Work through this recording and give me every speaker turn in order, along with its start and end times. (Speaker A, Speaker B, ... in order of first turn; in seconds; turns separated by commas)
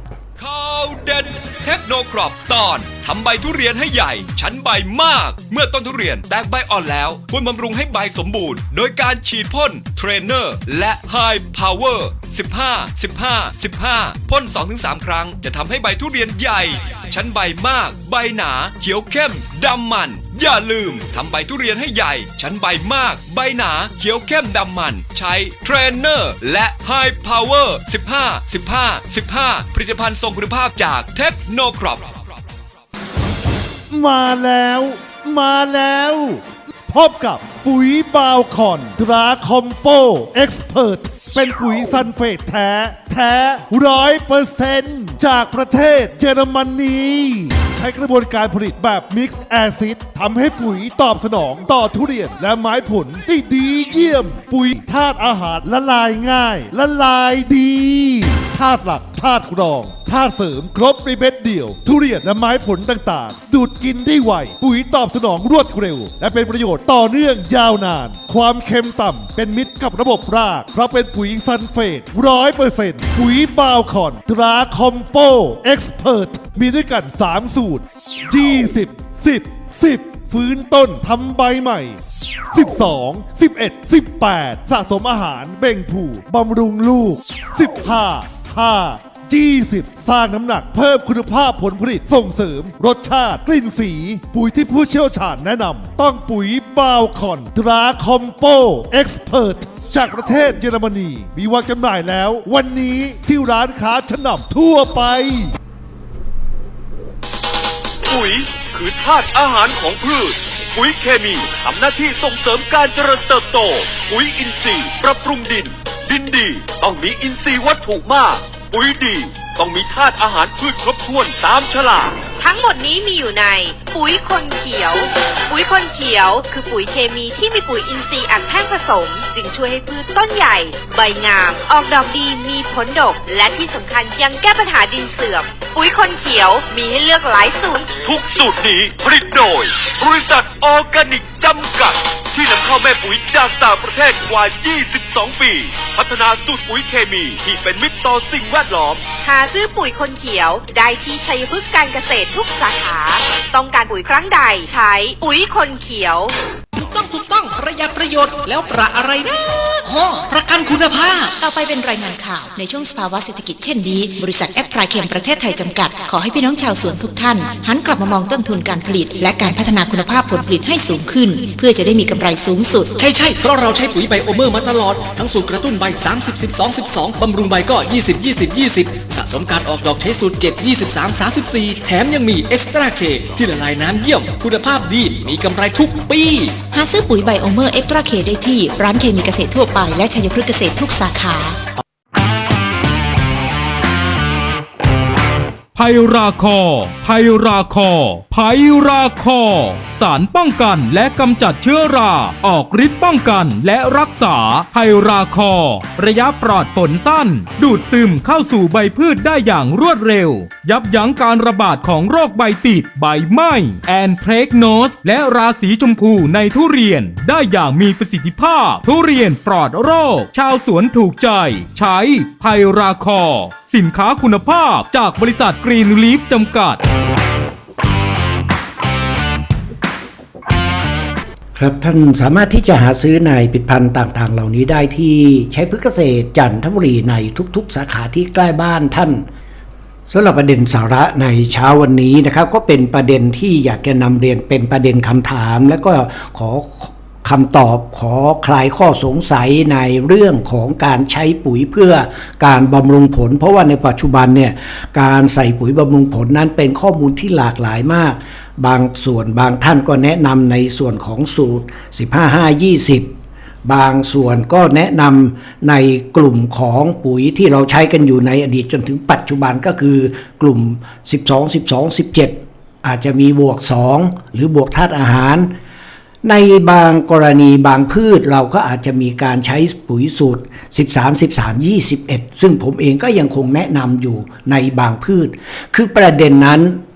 Speaker A: 0.4-32.4, Speaker B: 33.9-82.0, Speaker B: 82.5-105.5, Speaker C: 108.1-122.2, Speaker D: 122.4-137.9, Speaker C: 138.0-149.0, Speaker D: 149.2-156.3, Speaker E: 156.8-161.3, Speaker F: 161.4-172.9, Speaker E: 173.0-186.6, Speaker F: 186.7-191.6, Speaker G: 195.8-226.8, Speaker H: 231.6-239.2, Speaker H: 240.1-263.1, Speaker H: 263.6-275.5, Speaker H: 276.2-286.8